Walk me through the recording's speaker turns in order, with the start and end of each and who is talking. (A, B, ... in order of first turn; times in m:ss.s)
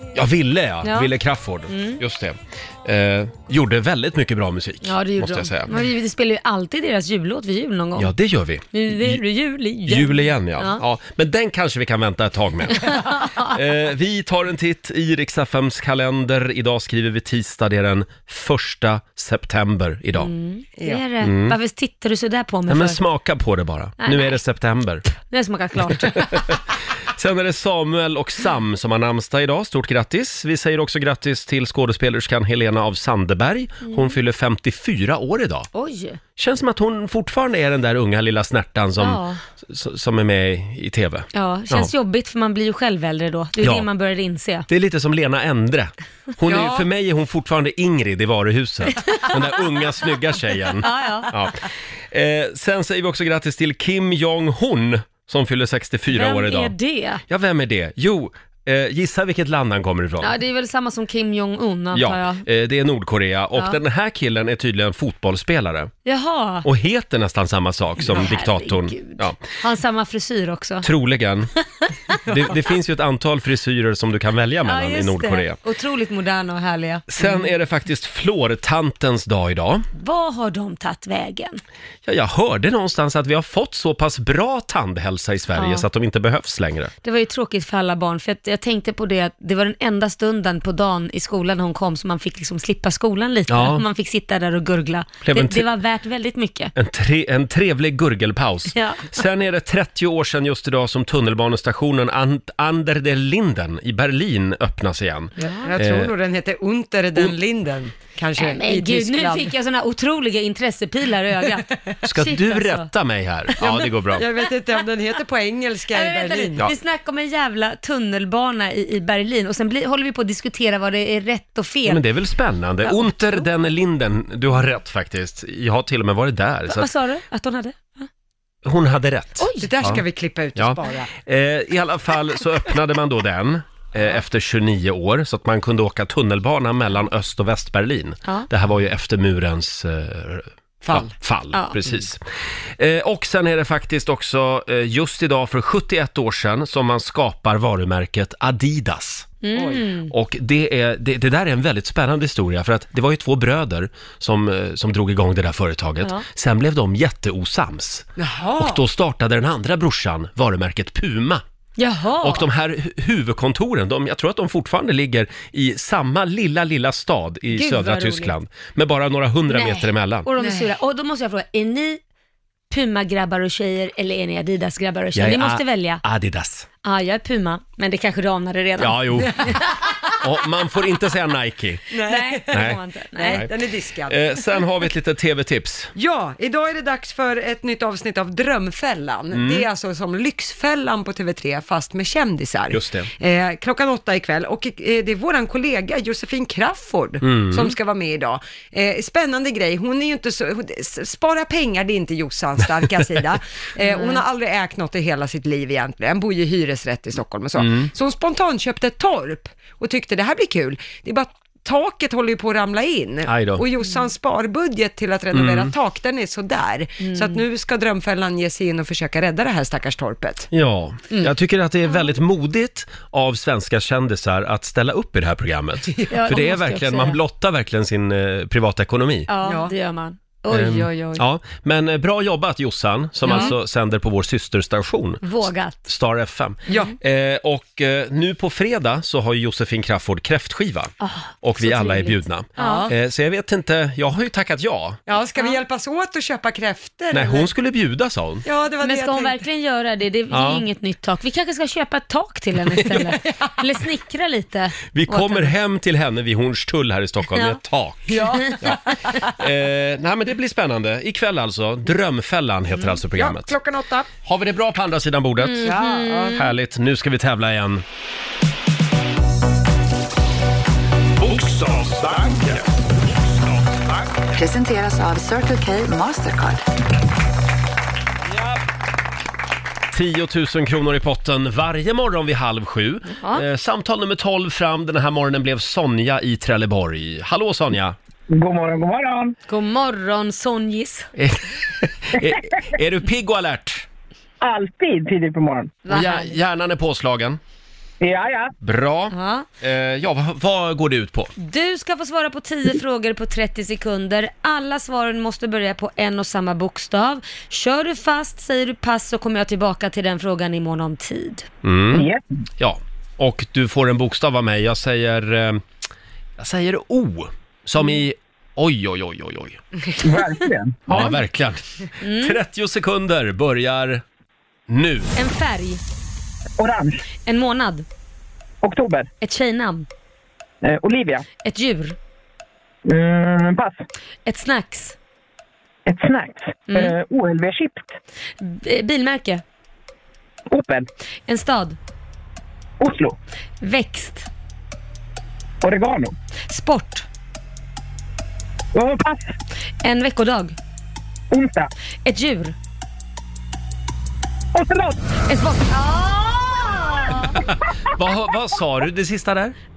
0:00.1-0:05.7 A
0:00.8-0:01.1 B
0:01.7-0:02.0 B
0:04.8-0:08.1 B
0:08.0-0:09.2 A
0:08.7-0:10.8 B
0:09.8-0:20.3 A
0:12.7-0:13.5 B
0:20.2-0:23.0 B
0:21.2-0:21.6 A
0:22.7-0:25.1 A
0:24.0-0:24.4 B
0:25.2-0:26.4 B
0:26.2-0:26.5 A
0:27.1-0:35.7 A
0:33.9-0:34.1 B
0:35.7-0:36.2 B
0:36.4-0:41.9 A
0:39.0-0:39.4 B
0:41.3-0:44.7 B
0:43.6-0:43.9 A
0:44.7-0:56.7 A
0:46.4-0:46.9 C
0:49.0-0:49.4 B
0:50.8-0:51.3 B
0:56.1-0:57.2 B
0:57.3-1:00.3 A
1:00.2-1:02.4 B
1:01.9-1:05.9 A
1:06.0-1:06.6 B
1:06.6-1:09.4 A
1:08.0-1:10.9 B
1:10.8-1:11.5 A
1:12.2-1:15.6 A
1:14.6-1:17.4 B
1:17.1-1:19.9 A
1:20.0-1:21.6 B
1:22.0-1:26.9 A
1:25.5-1:25.8 B
1:27.0-1:36.7 B
1:33.5-1:33.8 A
1:35.2-1:35.7 A
1:36.7-1:46.1 A
1:38.7-1:39.1 B
1:45.4-1:49.5 C
1:45.4-1:45.7 B
1:48.4-1:52.9 B
1:52.0-1:54.2 A
1:54.1-1:56.6 C
1:55.9-2:02.0 B
2:01.8-2:06.9 A
2:02.8-2:03.4 B
2:06.7-2:08.1 B
2:08.6-2:10.0 A
2:09.4-2:09.8 B
2:09.6-2:11.1 C
2:10.6-2:22.2 A
2:20.8-2:21.1 C
2:22.8-2:29.3 A
2:29.4-2:30.1 B
2:29.5-2:29.9 C
2:30.1-2:41.4 A
2:38.2-2:38.8 C
2:41.8-2:42.5 B
2:42.2-2:50.3 A
2:47.5-2:48.3 B
2:49.5-2:52.0 B
2:50.4-2:50.7 C
2:52.7-2:56.0 B
2:55.1-2:56.7 A
2:56.8-3:00.0 B
2:58.8-2:59.5 A
3:00.2-3:01.8 A
3:01.9-3:02.6 C
3:02.0-3:03.4 B
3:02.5-3:03.5 A
3:03.2-3:04.2 C
3:04.1-3:05.9 A
3:05.9-3:40.5 C
3:09.3-3:09.6 A
3:12.7-3:13.1 A
3:17.2-3:17.7 A
3:23.8-3:24.2 B
3:27.6-3:27.9 A
3:33.2-3:33.6 A
3:35.3-3:35.7 A
3:37.0-3:37.4 B
3:40.5-3:49.3 A
3:45.9-3:46.3 C
3:46.1-3:47.2 B
3:49.3-3:51.0 B
3:49.4-3:49.7 C
3:50.5-4:05.0 A
3:50.5-3:51.2 C
3:53.2-3:53.5 B
3:53.3-3:53.5 C
3:55.2-3:55.8 B
3:56.7-3:56.9 C
4:01.0-4:02.9 B
4:02.6-4:02.9 C
4:05.1-4:07.5 C
4:07.1-4:08.4 A
4:08.4-4:09.5 C
4:08.8-4:15.5 B
4:10.3-4:10.6 A
4:14.9-4:23.5 A
4:17.3-4:17.6 B
4:18.1-4:19.1 C
4:18.4-4:18.7 B
4:23.1-4:24.1 C
4:24.2-4:25.7 A
4:25.4-4:26.5 B
4:25.6-4:26.4 C
4:26.3-4:27.8 A
4:31.2-4:34.2 D
4:34.3-4:36.6 E
4:39.9-4:48.0 A
4:43.2-4:43.4 B
4:48.3-4:49.3 F
4:49.5-4:51.1 B
4:51.2-4:53.8 A
4:54.4-4:55.8 F
4:55.8-4:56.4 B
4:55.9-4:57.4 A
4:58.0-4:58.5 F
4:58.6-5:01.3 A
4:59.1-4:59.5 B
5:01.4-5:11.5 B
5:11.6-5:12.0 A
5:11.9-5:12.2 F
5:12.6-5:15.6 A
5:16.4-5:19.6 A
5:20.0-5:21.1 F
5:20.9-5:24.0 A
5:22.0-5:22.4 B
5:24.7-5:25.1 A
5:25.1-5:25.8 B
5:26.6-5:27.0 F
5:27.2-5:27.8 B
5:28.6-5:29.1 F
5:29.2-5:29.9 B
5:30.6-5:31.2 F
5:31.4-5:32.0 B
5:32.8-5:33.8 F
5:34.2-5:35.0 B
5:35.8-5:38.0 F
5:36.7-5:36.9 B
5:38.4-5:39.4 B
5:40.5-5:40.9 F
5:41.3-5:41.8 B
5:42.8-5:43.2 F
5:43.6-5:44.3 B
5:45.6-5:46.1 F
5:46.5-5:47.0 B
5:48.7-5:49.3 F
5:49.8-5:50.6 B
5:51.3-5:51.7 F
5:52.0-5:52.6 B
5:54.5-5:55.2 F
5:55.3-5:57.4 B
5:57.2-5:59.6 A